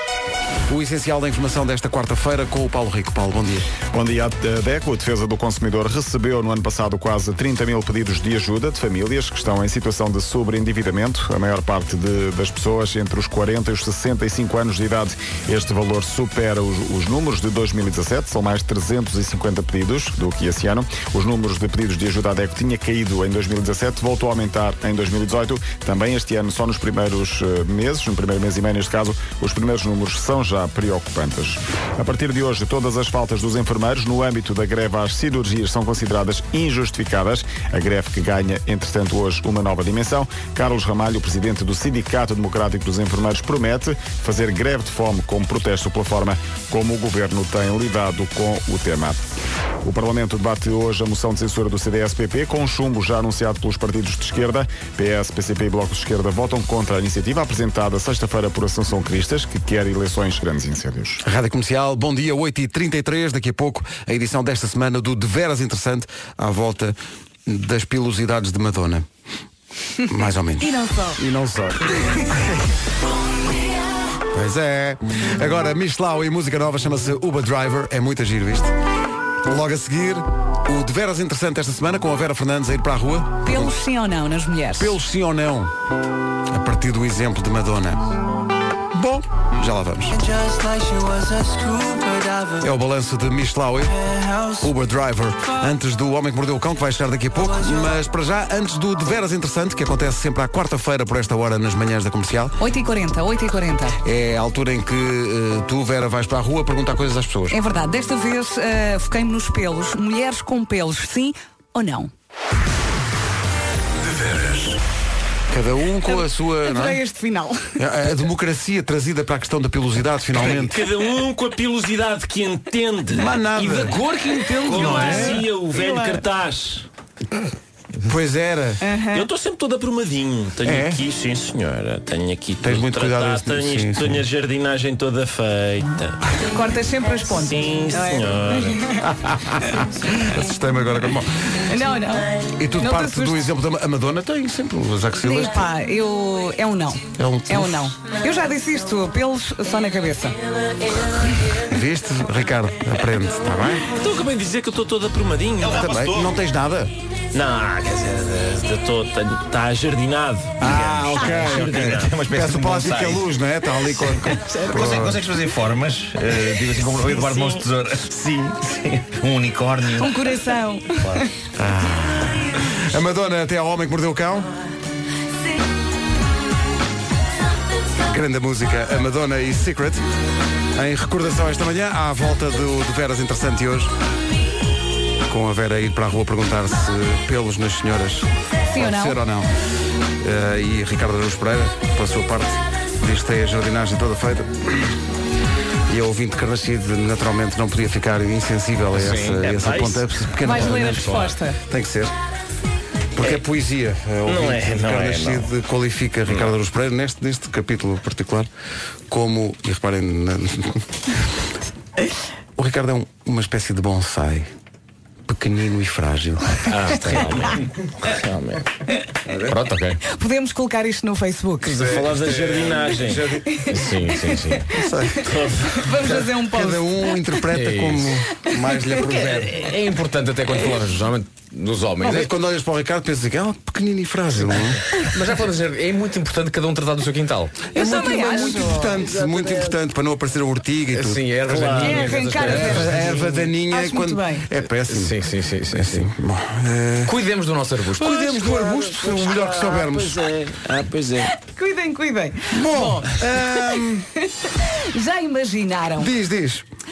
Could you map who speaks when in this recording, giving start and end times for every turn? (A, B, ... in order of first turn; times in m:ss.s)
0:00.7-0:03.7 A
0:03.9-0:49.2 B
0:49.8-1:01.2 B
1:01.2-1:09.1 A
1:10.1-1:12.6 A
1:10.6-1:11.2 C
1:14.3-1:18.7 A
1:19.4-1:23.7 A
1:23.4-1:25.0 C
1:24.8-1:25.7 A
1:26.5-1:28.1 A
1:28.9-1:30.3 A
1:32.5-1:42.6 A
1:42.6-1:44.0 C
1:44.0-1:47.6 A
1:47.5-1:52.1 C
1:55.5-1:57.0 A
1:56.0-1:57.7 C
1:57.8-2:00.8 A
2:00.3-2:03.3 D
2:03.1-2:05.4 A
2:03.6-2:05.3 E
2:04.6-2:06.8 D
2:05.7-2:06.2 C
2:08.0-2:08.8 A
2:08.8-2:09.2 C
2:09.1-2:16.3 D
2:10.6-2:11.0 A
2:12.6-2:14.2 A
2:16.4-2:18.8 C
2:17.3-2:19.0 D
2:19.1-2:21.6 A
2:21.7-2:23.5 C
2:22.6-2:25.6 A
2:25.2-2:30.4 C
2:27.2-2:27.9 A
2:31.6-2:33.8 A
2:33.9-2:35.9 D
2:35.6-2:36.4 F
2:35.7-2:36.9 A
2:37.3-2:42.2 D
2:40.6-2:45.2 A
2:40.6-2:43.3 F
2:44.2-2:45.2 D
2:44.7-2:50.4 F
2:46.9-2:47.6 D
2:50.0-2:51.3 C
2:51.6-2:54.5 A
2:58.0-3:00.0 A
3:00.7-3:03.9 A
3:05.2-3:09.5 A
3:08.7-3:09.2 C
3:10.2-3:14.9 A
3:15.9-3:22.1 A
3:19.0-3:19.4 E
3:19.2-3:20.1 D
3:20.4-3:21.6 C
3:23.1-3:28.5 A
3:24.2-3:25.5 D
3:29.1-3:31.2 A
3:32.6-3:34.5 A
3:35.3-3:37.2 A
3:36.7-3:38.6 D
3:36.9-3:37.5 E
3:39.3-3:39.6 A
3:39.5-3:40.0 E
3:40.0-3:41.8 C
3:41.7-3:43.4 D
3:41.8-3:43.4 A
3:41.8-3:42.7 E
3:43.5-3:44.6 C
3:43.7-3:44.7 E
3:44.7-3:45.4 A
3:45.2-3:45.8 D
3:45.7-3:47.3 C
3:46.2-3:49.6 A
3:47.5-3:48.2 E
3:48.4-3:48.8 C
3:49.2-3:52.3 E
3:52.0-3:54.8 A
3:55.0-3:57.7 E
3:57.7-3:58.9 C
3:57.7-4:07.2 A
4:00.9-4:03.3 E
4:01.5-4:01.9 D
4:01.8-4:02.9 C
4:03.7-4:04.4 C
4:04.9-4:06.1 E
4:07.0-4:08.1 E
4:08.0-4:10.2 A
4:08.1-4:11.3 D
4:11.3-4:16.1 C
4:12.5-4:14.1 A
4:16.0-4:16.6 A